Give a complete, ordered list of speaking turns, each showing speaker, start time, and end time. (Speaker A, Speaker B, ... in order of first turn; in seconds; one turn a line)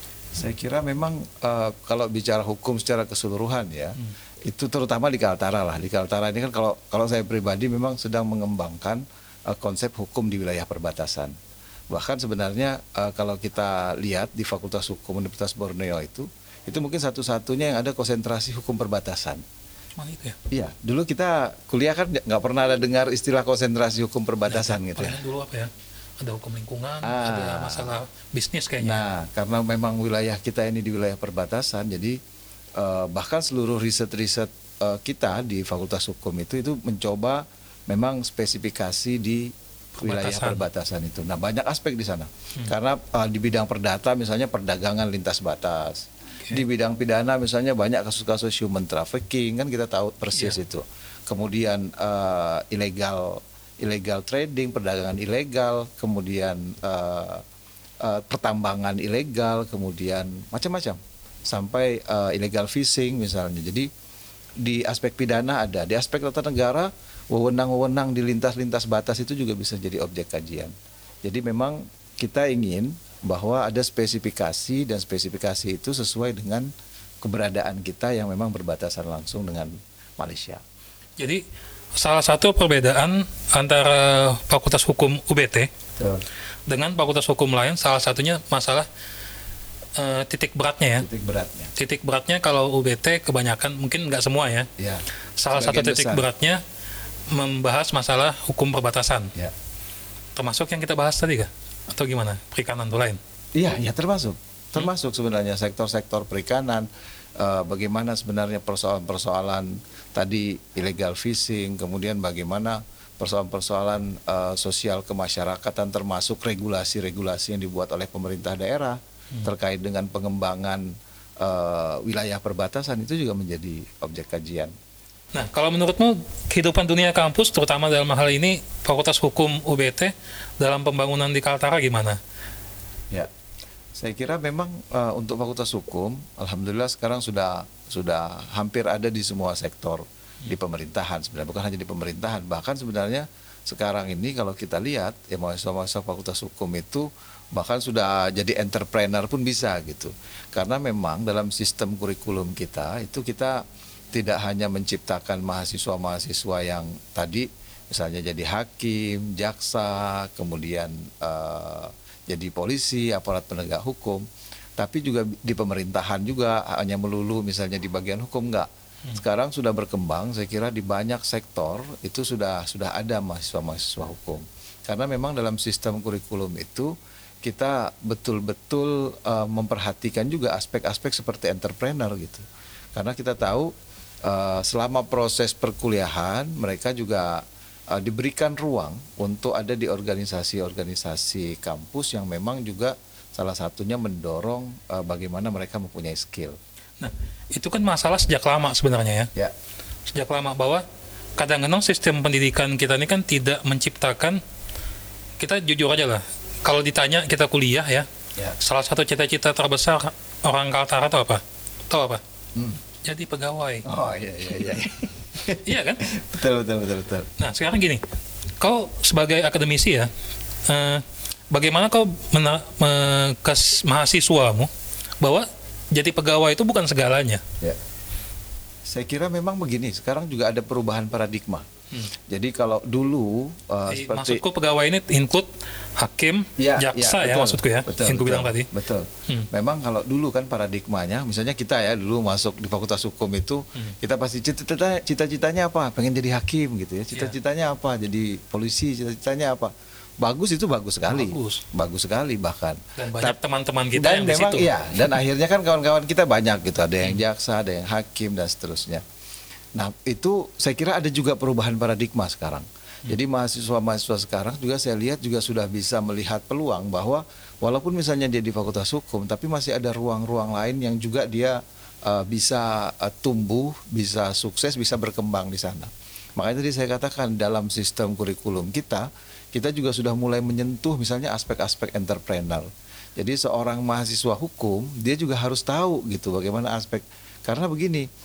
Speaker A: 0.3-11.3
Speaker A: 11.9-19.4
Speaker B: 19.9-20.4
Speaker A: 20.5-25.2
Speaker B: 24.5-29.1
Speaker A: 27.0-28.0
Speaker A: 28.8-32.2
Speaker A: 32.8-57.4
Speaker B: 40.0-40.6
Speaker A: 58.0-63.9
Speaker A: 64.6-70.7
Speaker A: 71.2-76.7
Speaker A: 77.2-80.6
Speaker B: 81.2-81.4
Speaker B: 81.9-85.7
Speaker A: 86.0-86.2
Speaker B: 86.7-88.9
Speaker B: 90.0-91.1
Speaker A: 91.0-91.7
Speaker B: 91.8-94.7
Speaker A: 94.8-96.2
Speaker B: 95.4-96.6
Speaker B: 97.3-99.3
Speaker B: 100.3-103.2
Speaker A: 103.5-124.7
Speaker B: 125.3-132.2
Speaker A: 133.9-164.2
Speaker A: 164.8-183.7
Speaker A: 184.2-196.6
Speaker B: 197.0-199.3
Speaker B: 200.1-200.8
Speaker B: 201.4-204.4
Speaker B: 205.4-208.1
Speaker B: 208.6-212.2
Speaker A: 212.5-212.8
Speaker B: 213.0-213.9
Speaker A: 213.8-217.3
Speaker B: 215.5-216.0
Speaker B: 217.4-218.0
Speaker B: 218.6-220.1
Speaker B: 220.6-224.7
Speaker B: 225.2-227.4
Speaker A: 228.8-231.7
Speaker A: 232.2-234.4
Speaker B: 233.9-238.7
Speaker A: 236.6-253.4
Speaker B: 251.1-251.6
Speaker B: 253.0-254.7
Speaker A: 253.9-259.0
Speaker A: 259.7-288.1